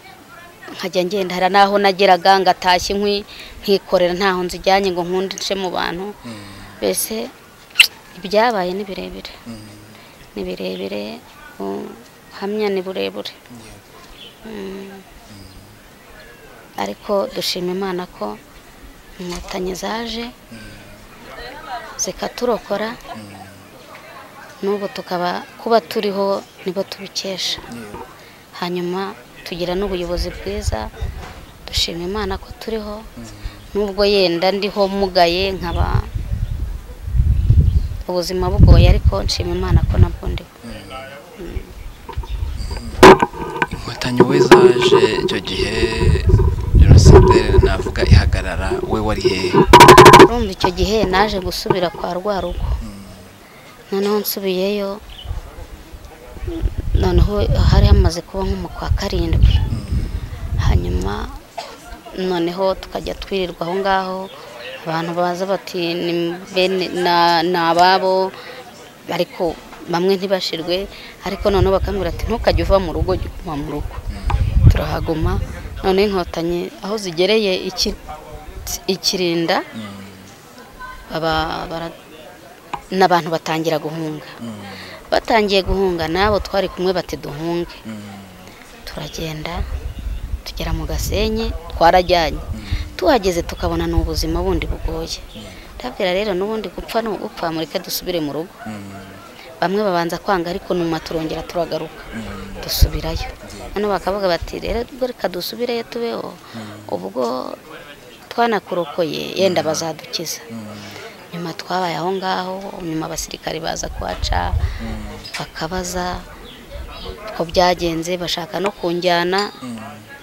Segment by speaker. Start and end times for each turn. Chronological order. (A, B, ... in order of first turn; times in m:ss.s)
0:00.8-0:06.1 A
0:06.3-0:06.7 B
0:06.8-0:07.3 A
0:08.2-0:09.3 A
0:09.5-0:10.0 B
0:10.4-0:13.4 A
0:13.5-0:13.8 B
0:14.5-0:15.0 A
0:15.3-0:15.7 B
0:16.8-0:18.4 A
0:19.2-0:20.3 A
0:20.5-0:20.9 B
0:22.0-0:23.0 A
0:23.2-0:23.7 B
0:24.6-0:27.6 A
0:27.7-0:28.0 B
0:28.6-0:30.9 A
0:31.7-0:33.1 A
0:33.2-0:33.6 B
0:33.7-0:36.1 A
0:38.1-0:40.5 A
0:40.6-0:41.2 B
0:41.4-0:41.7 A
0:42.7-0:43.0 B
0:43.7-0:49.6 B
0:50.3-0:52.8 A
0:52.8-0:53.3 B
0:53.9-0:55.0 A
0:57.0-0:59.6 A
0:59.7-1:00.1 B
1:00.6-1:01.4 A
1:02.2-1:04.3 A
1:04.8-1:08.3 A
1:09.1-1:14.0 A
1:14.7-1:18.0 A
1:18.9-1:19.6 A
1:19.8-1:20.3 B
1:21.1-1:21.9 A
1:22.9-1:24.3 A
1:24.4-1:24.9 B
1:25.1-1:27.8 A
1:27.9-1:28.4 B
1:28.9-1:29.6 A
1:30.5-1:32.4 A
1:32.6-1:32.9 B
1:33.0-1:35.2 A
1:35.8-1:38.5 A
1:38.7-1:39.2 B
1:39.6-1:42.0 A
1:42.2-1:42.7 B
1:42.6-1:47.6 A
1:43.4-1:43.8 B
1:46.6-1:46.9 B
1:48.3-1:50.4 A
1:49.4-1:49.9 B
1:50.5-1:51.0 B
1:51.3-1:54.6 A
1:54.8-1:55.3 B
1:55.4-1:56.2 A
1:57.3-1:59.5 A
1:59.6-2:00.1 B